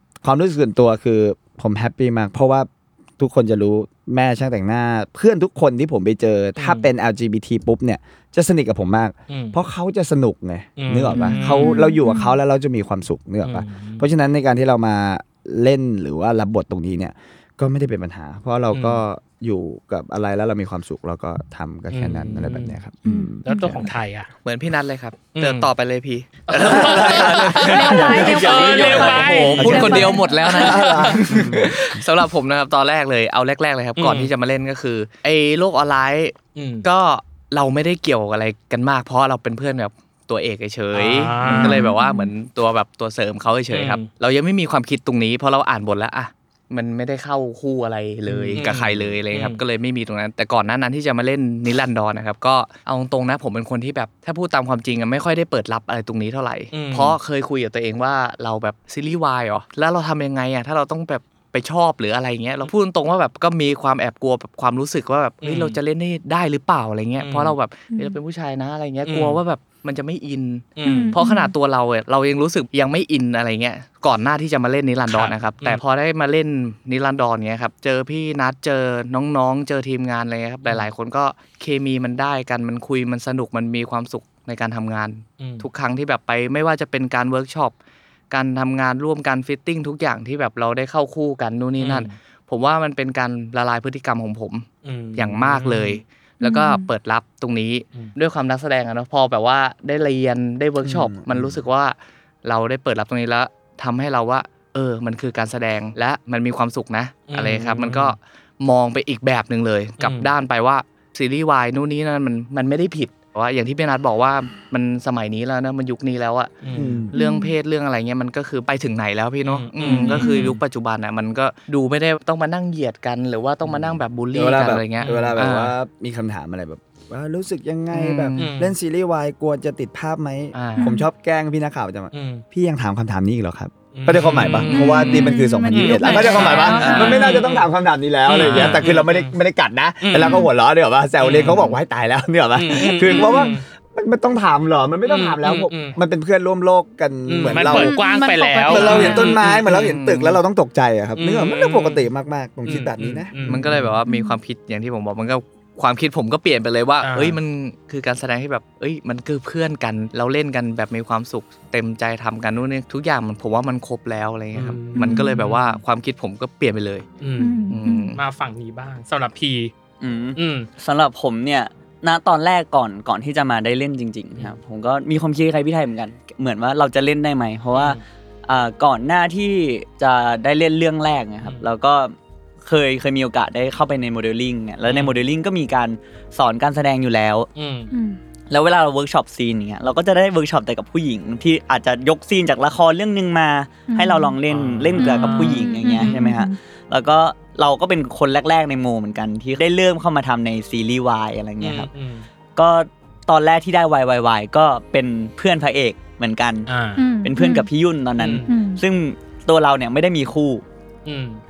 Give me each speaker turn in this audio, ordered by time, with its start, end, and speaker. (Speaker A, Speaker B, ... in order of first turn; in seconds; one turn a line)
Speaker A: 0.2-23.9
Speaker B: 6.6-6.9
Speaker B: 9.3-9.6
Speaker B: 10.8-11.8
Speaker C: 11.1-12.4
Speaker B: 13.4-14.0
Speaker B: 18.7-19.0
Speaker B: 21.9-22.8
Speaker C: 23.0-23.9
Speaker B: 23.4-24.3
Speaker D: 24.4-27.6
Speaker B: 25.4-25.7
Speaker B: 26.5-31.2
Speaker E: 26.6-29.9
Speaker A: 26.6-28.1
Speaker C: 27.5-30.8
Speaker D: 29.4-87.7
Speaker A: 29.6-31.9
Speaker B: 34.0-34.3
Speaker B: 36.6-36.9
Speaker B: 40.9-41.8
Speaker C: 41.5-42.3
Speaker B: 43.7-44.1
Speaker A: 48.4-49.0
Speaker B: 48.5-49.6
Speaker B: 56.7-57.2
Speaker B: 65.4-65.8
Speaker B: 67.2-67.6
Speaker C: 67.9-68.2
Speaker B: 69.1-69.4
Speaker B: 70.8-71.2
Speaker C: 70.8-71.5
Speaker B: 75.1-75.8
Speaker B: 80.6-80.9
Speaker B: 85.4-85.7
Speaker D: 88.3-116.6
Speaker B: 91.8-92.2
Speaker B: 94.8-96.0
Speaker C: 96.4-96.9
Speaker A: 100.8-101.6
Speaker B: 107.3-108.2
Speaker B: 110.0-110.3
Speaker B: 116.6-117.0
Speaker A: 116.7-117.1
Speaker C: 117.1-117.6
Speaker D: 117.1-125.7
Speaker B: 119.5-120.5
Speaker C: 119.8-120.6
Speaker A: 123.7-147.9
Speaker B: 125.0-125.3
Speaker D: 127.9-128.5
Speaker B: 128.4-128.7
Speaker D: 130.5-130.9
Speaker C: 130.8-131.1
Speaker B: 132.1-132.4
Speaker B: 133.9-135.0
Speaker C: 134.6-137.5
Speaker D: 134.8-135.3
Speaker B: 135.7-137.7
Speaker D: 136.7-137.2
Speaker B: 138.3-139.4
Speaker B: 140.0-140.5
Speaker C: 140.2-140.5
Speaker B: 141.2-141.8
Speaker B: 142.6-143.6
Speaker C: 143.1-143.4
Speaker B: 145.1-146.0
Speaker B: 147.3-149.4
Speaker C: 147.6-149.4
Speaker A: 148.7-153.8
Speaker D: 148.8-150.4
Speaker B: 151.2-152.1
Speaker B: 152.6-153.7
Speaker D: 153.4-167.1
Speaker C: 154.1-154.4
Speaker B: 157.0-157.4
Speaker B: 164.6-165.8
Speaker C: 165.0-165.3
Speaker B: 167.2-169.7
Speaker C: 167.4-168.2
Speaker D: 167.7-168.2
Speaker E: 170.0-187.5
Speaker B: 170.4-170.7
Speaker B: 177.7-178.0
Speaker B: 184.8-185.2
Speaker B: 187.6-187.9
Speaker C: 187.9-188.2
Speaker E: 188.5-201.9
Speaker C: 193.9-194.4
Speaker B: 194.5-196.2
Speaker C: 195.0-196.6
Speaker B: 201.6-202.3
Speaker E: 202.6-206.7
Speaker B: 206.7-207.0
Speaker C: 207.0-207.7
Speaker E: 207.2-210.6
Speaker B: 208.2-208.5
Speaker C: 208.5-208.8
Speaker B: 211.1-211.4